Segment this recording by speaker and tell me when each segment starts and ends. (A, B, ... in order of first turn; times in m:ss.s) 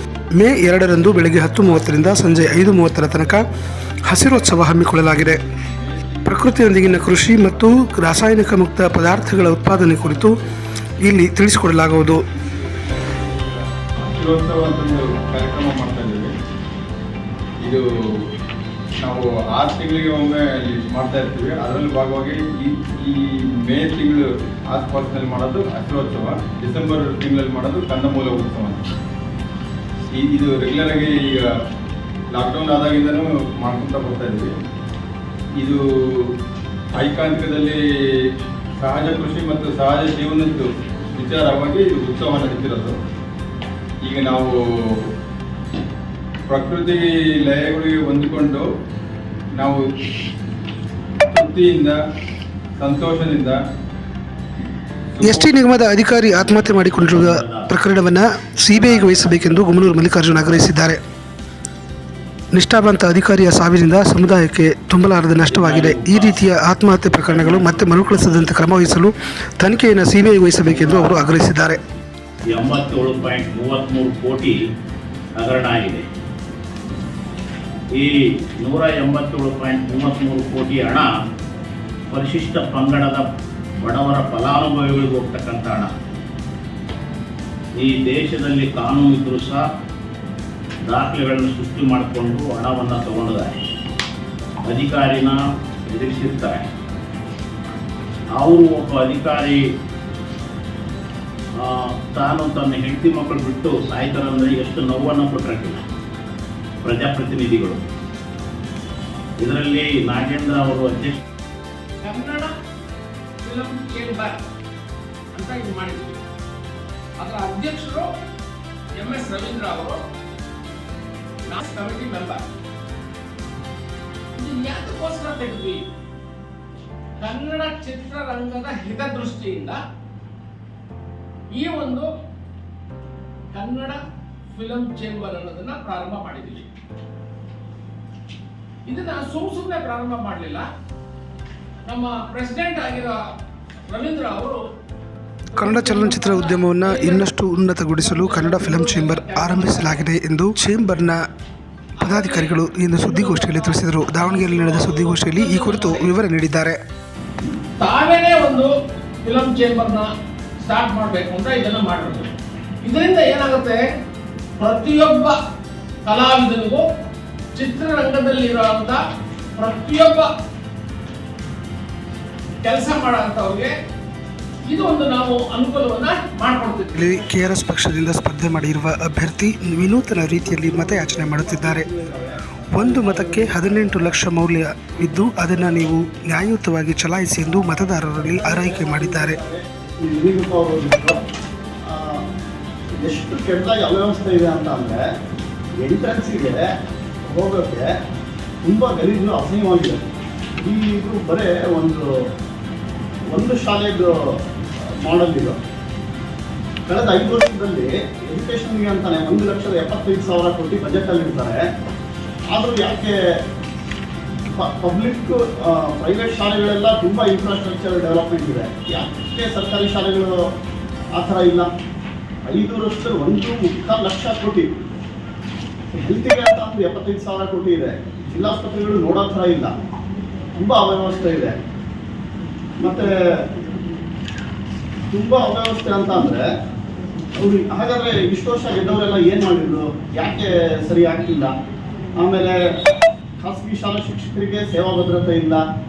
0:00.4-0:03.4 A
0:00.8-0:10.3 B
0:04.1-0:05.4 A
0:06.2-0:10.4 A
0:11.0-0:12.2 A
0:12.0-0:16.3 B
0:19.0-0:28.8 B
0:30.1-0:31.5 B
0:32.3-0:34.5 B
0:35.6-0:36.3 B
0:36.9-0:37.8 B
0:38.8-0:42.9 B
0:44.0-0:45.0 B
0:46.5-0:48.6 B
0:49.6-0:49.8 B
0:51.3-0:51.9 B
0:52.8-0:53.6 B
0:55.1-0:55.5 B
0:55.2-1:01.0 A
0:56.4-0:57.7 C
0:58.7-0:59.9 C
1:02.5-1:11.8 A
1:05.5-1:06.4 C
1:07.3-1:08.0 C
1:10.7-1:11.3 C
1:12.5-1:14.6 C
1:15.4-1:16.1 C
1:17.9-1:21.1 C
1:22.1-1:23.2 C
1:23.8-1:25.9 C
1:27.8-1:29.7 C
1:30.8-1:33.6 C
1:34.7-1:36.7 C
1:38.4-1:39.6 C
1:41.6-1:45.8 C
1:46.8-1:47.8 C
1:49.4-1:51.2 C
1:52.0-1:52.5 D
1:53.4-1:54.4 D
1:55.3-1:56.2 D
1:57.2-1:58.1 D
1:59.0-2:00.0 D
2:01.5-2:02.4 D
2:04.4-2:05.8 D
2:07.2-2:09.8 D
2:11.5-2:12.1 D
2:13.5-2:14.0 D
2:14.5-2:16.7 D
2:18.8-2:20.6 D
2:21.8-2:23.2 D
2:23.9-2:24.6 D
2:25.5-2:27.3 D
2:25.6-2:31.2 A
2:28.0-2:30.0 D
2:32.0-2:36.1 D
2:32.0-2:36.8 A
2:37.8-2:38.7 D
2:39.2-2:40.1 D
2:40.6-2:43.8 D
2:44.6-2:45.4 D
2:46.0-2:46.8 D
2:47.5-2:49.0 D
2:49.6-2:50.3 D
2:52.6-2:53.7 D
2:54.7-2:57.0 D
2:56.9-3:01.8 A
3:00.6-3:04.1 E
3:02.7-3:09.4 A
3:08.2-3:11.2 E
3:11.9-3:12.2 E
3:13.0-3:15.0 E
3:15.8-3:16.6 E
3:17.3-3:17.8 E
3:18.6-3:20.0 E
3:20.6-3:22.0 E
3:23.3-3:24.1 E
3:25.0-3:25.5 E
3:26.9-3:31.6 E
3:32.5-3:33.1 E
3:34.6-3:40.3 E
3:41.2-3:41.7 E
3:42.4-3:44.7 E
3:45.9-3:49.7 E
3:50.6-3:51.6 E
3:52.8-3:53.1 E
3:55.1-3:56.4 E
3:57.4-4:01.5 E
4:02.2-4:02.6 E
4:03.4-4:05.6 E